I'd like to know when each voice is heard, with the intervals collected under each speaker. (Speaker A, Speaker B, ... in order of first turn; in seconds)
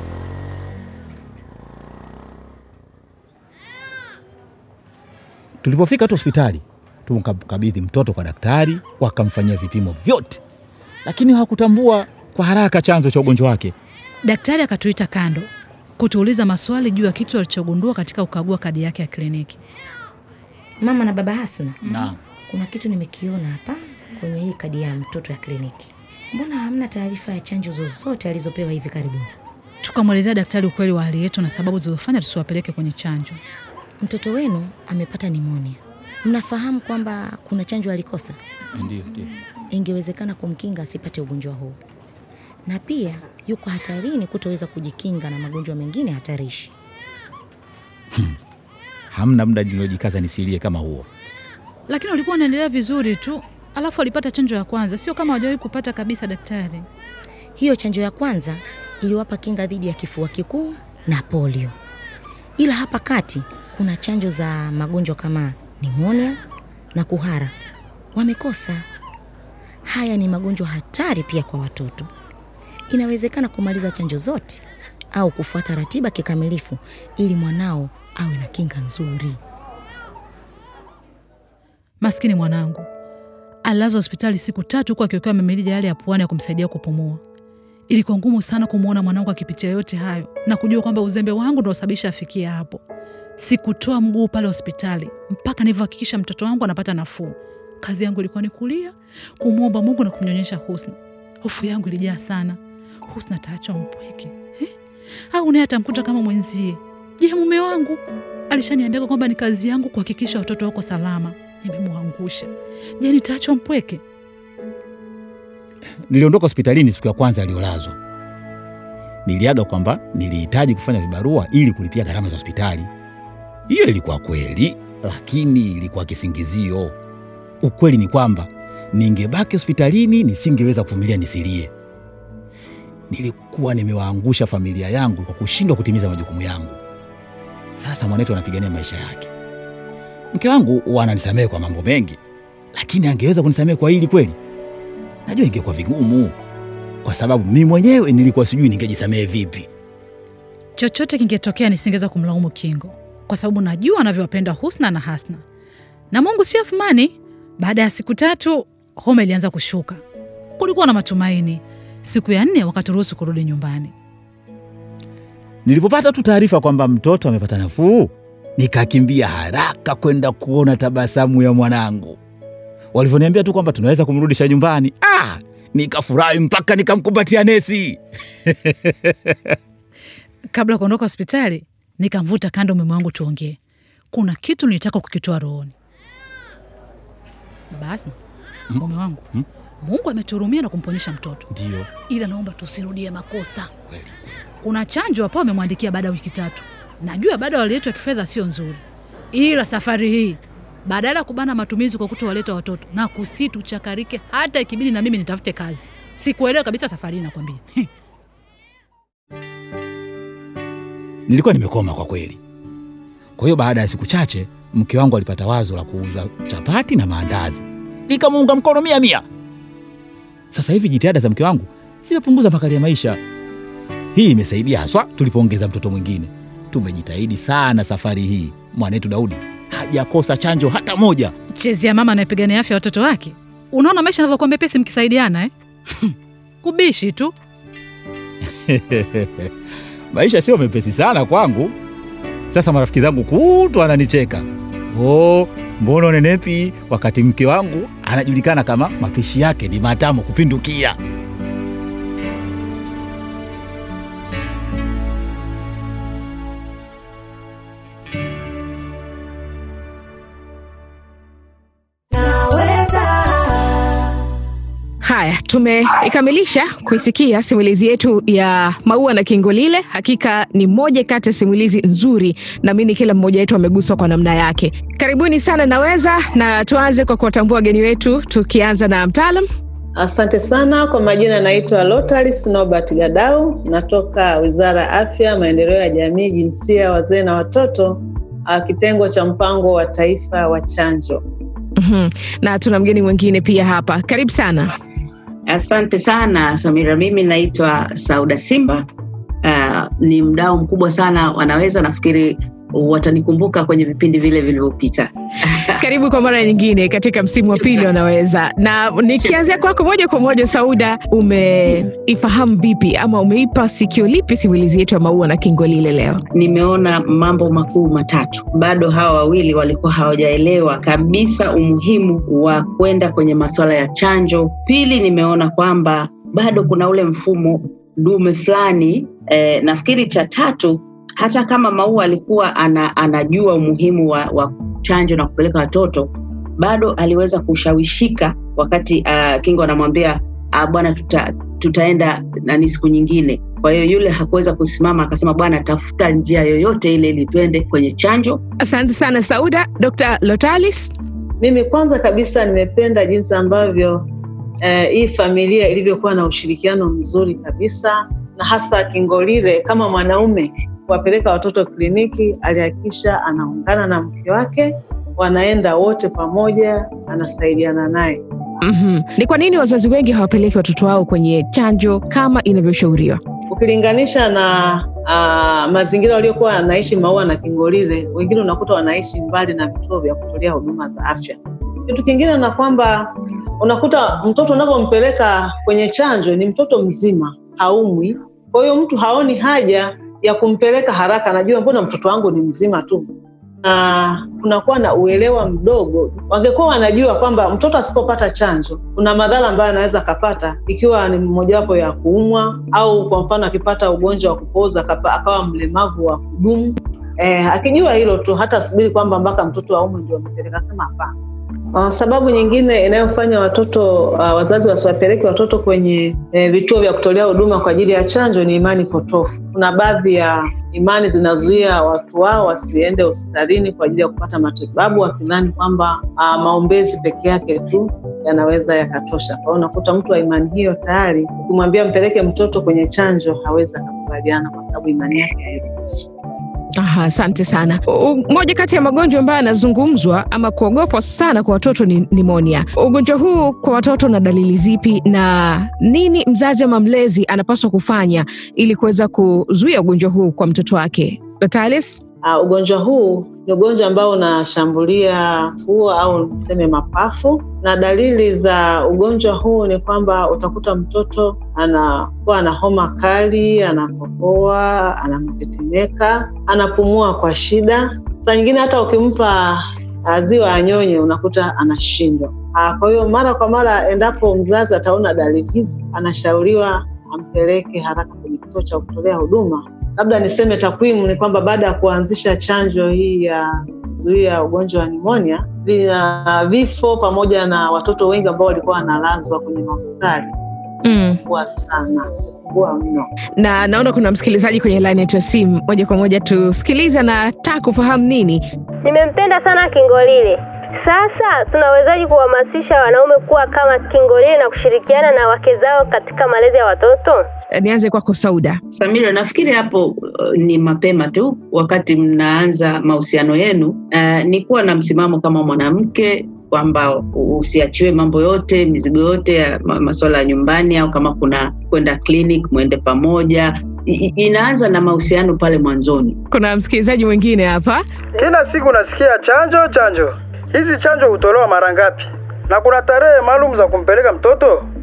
Speaker A: 5.6-10.4, 11.1-13.7, 21.9-22.2, 38.8-39.3, 49.1-51.1, 116.1-118.0, 119.3-122.9, 123.7-127.0, 127.6-131.7, 133.1-136.8, 137.8-139.3, 140.3-142.2, 142.8-144.4, 145.3-146.3, 147.0-149.7, 165.7-172.2, 172.9-179.6, 188.7-189.5, 191.5-191.9, 193.9-194.2, 211.3-212.4, 213.4-219.2, 220.5-223.2, 224.1-231.3, 238.5-239.5, 240.1-241.7, 242.5-251.0
Speaker B: 14.2-19.6, 21.9-22.1, 29.8-33.4, 51.9-56.9, 82.0-82.9, 83.6-87.2, 87.9-92.8, 93.4-104.7, 105.3-114.0, 150.8-155.4, 156.1-160.0, 160.6-163.9, 180.5-183.6, 184.1-185.7, 187.7-188.2, 188.8-189.3, 189.8-191.5, 192.1-193.7, 194.6-198.8, 199.3-207.9, 231.6-237.3
Speaker C: 20.8-21.8, 22.5-29.3, 34.0-38.4, 39.7-41.8, 42.7-46.7, 57.6-61.8, 62.6-66.4, 66.9-67.5, 68.1-68.8, 69.9-72.1, 72.9-79.4
Speaker D: 265.0-279.5, 291.8-294.7, 305.7-316.2, 348.6-350.9, 368.6-373.2, 436.8-452.0, 490.8-491.2, 493.4-498.4, 507.6-508.6, 526.3-527.8
Speaker E: 280.0-291.2, 351.4-354.1, 354.6-368.2, 373.5-383.1, 383.6-393.1, 393.6-411.1, 411.8-436.1, 452.2-490.3, 491.3-493.1
Speaker F: 295.5-298.9, 299.4-305.8, 316.3-348.4, 508.7-526.2
Speaker G: 498.9-507.2
Speaker H: 528.1-534.7